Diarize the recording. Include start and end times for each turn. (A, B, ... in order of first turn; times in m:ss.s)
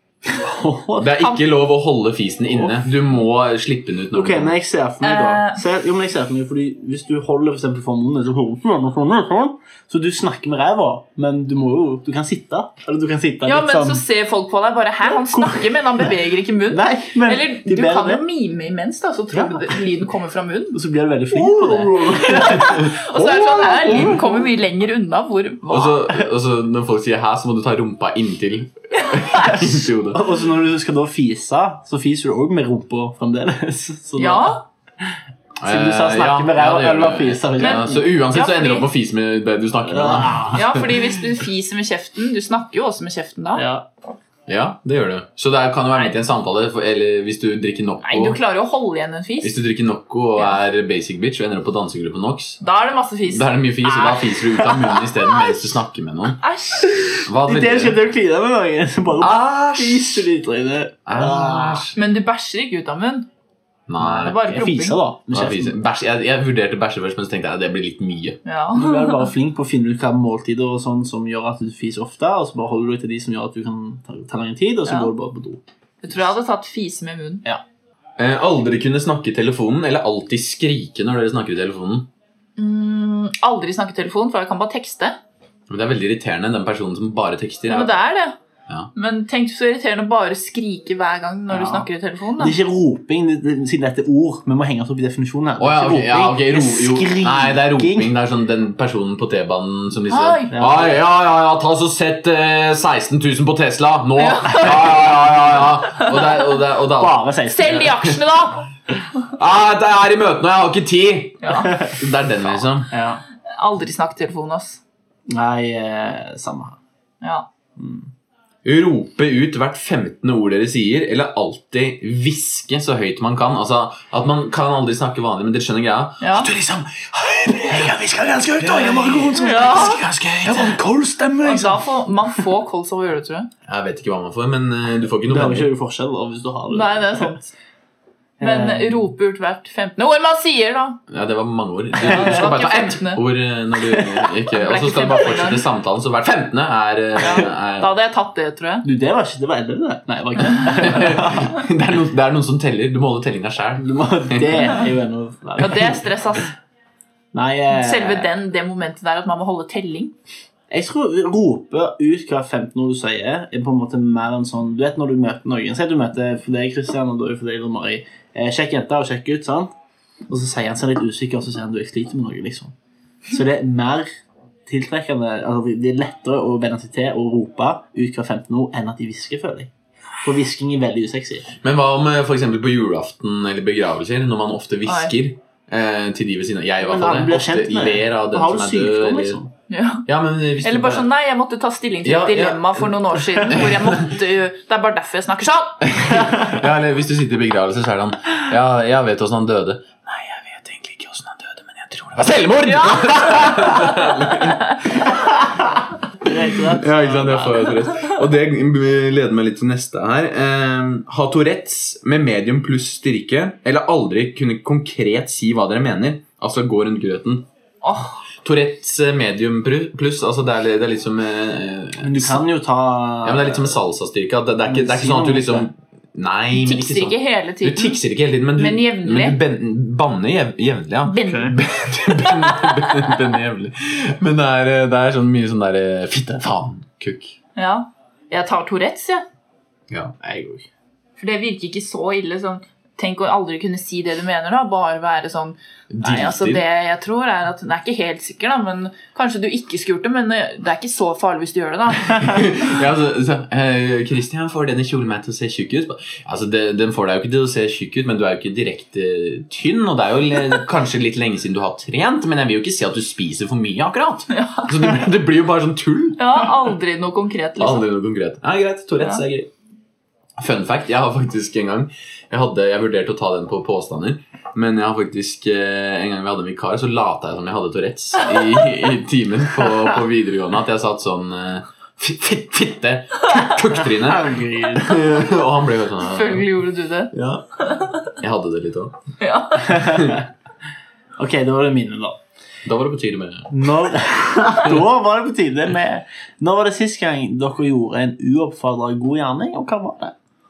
0:00.3-0:01.3 A
0:01.0-0:04.6 B
0:02.5-0:02.9 A
0:04.1-0:14.0 A
0:05.0-0:05.6 C
0:13.4-0:20.8 C
0:15.1-0:16.1 A
0:16.7-0:18.3 A
0:19.3-0:19.8 A
0:20.7-0:24.5 A
0:21.4-0:26.1 C
0:21.6-0:24.2 B
0:25.7-0:30.2 B
0:29.1-0:29.5 C
0:29.6-0:38.1 A
0:34.2-0:34.6 C
0:35.6-0:40.9 B
0:37.6-0:38.9 C
0:39.8-0:40.9 A
0:40.5-0:43.6 C
0:43.6-0:43.9 A
0:44.5-0:48.4 B
0:48.0-0:49.6 C
0:49.4-0:52.6 B
0:52.6-0:55.6 C
0:53.3-0:56.4 B
0:56.4-0:57.0 C
0:56.9-1:01.9 A
0:57.2-0:58.0 B
0:59.2-1:00.2 B
1:01.1-1:02.0 B
1:01.9-1:03.3 C
1:03.9-1:04.4 B
1:04.0-1:05.8 A
1:04.1-1:05.0 C
1:05.3-1:08.4 B
1:08.4-1:09.3 C
1:08.7-1:15.6 A
1:14.9-1:15.1 C
1:16.0-1:17.4 C
1:18.2-1:22.1 B
1:22.6-1:25.2 C
1:25.7-1:28.0 B
1:27.7-1:28.4 C
1:28.9-1:32.6 C
1:31.5-1:38.1 A
1:35.6-1:47.2 B
1:40.1-1:40.6 C
1:40.5-1:41.0 A
1:44.2-1:46.5 C
1:47.0-1:48.1 A
1:47.4-1:48.7 C
1:49.3-1:52.9 B
1:51.4-1:51.8 C
1:52.9-1:53.2 A
1:53.5-1:54.8 C
1:55.3-1:56.8 A
1:57.8-1:58.1 A
1:58.6-2:08.0 B
2:06.2-2:06.5 C
2:07.6-2:12.4 A
2:08.6-2:10.8 B
2:09.4-2:10.0 C
2:11.4-2:13.5 C
2:13.7-2:15.7 B
2:15.3-2:17.4 A
2:16.7-2:17.5 C
2:18.4-2:19.1 A
2:18.4-2:21.0 C
2:21.1-2:27.9 B
2:22.0-2:23.2 C
2:24.2-2:25.6 C
2:27.2-2:28.9 C
2:28.8-2:31.6 A
2:30.7-2:34.8 B
2:33.8-2:36.4 A
2:35.6-2:36.5 C
2:37.3-2:38.3 A
2:37.7-2:40.1 C
2:40.7-2:49.7 A
2:50.3-2:52.7 A
2:53.3-2:54.1 A
2:54.6-3:01.5 A
3:01.6-3:09.4 B
3:04.9-3:05.1 C
3:06.8-3:09.5 A
3:09.7-3:10.1 C
3:10.1-3:11.1 B
3:10.6-3:16.2 C
3:12.0-3:14.2 B
3:15.8-3:25.4 B
3:22.6-3:24.8 C
3:26.2-3:27.8 A
3:26.5-3:37.5 B
3:37.8-3:38.2 C
3:38.4-3:42.4 B
3:42.0-3:43.8 A
3:43.2-3:57.4 B
3:44.6-3:45.7 A
3:46.6-3:48.0 C
3:48.6-3:49.4 C
3:51.1-3:51.6 C
3:51.3-3:51.6 A
3:52.2-3:53.1 C
3:57.6-3:59.2 C
3:59.9-4:00.2 B
4:00.2-4:00.7 A
4:01.2-4:12.6 C
4:05.9-4:06.6 B
4:12.1-4:26.4 B
4:24.3-4:25.0 C
4:26.2-4:27.9 C
4:27.6-4:29.5 B
4:30.4-4:46.5 B
4:43.8-4:45.2 A
4:46.0-4:47.1 C
4:47.1-4:49.0 B
4:47.6-4:47.9 C
4:49.2-4:50.1 C
4:49.7-4:50.2 A
4:49.7-4:50.2 B
4:51.2-4:52.2 A
4:52.6-4:53.6 B
4:53.5-5:00.1 A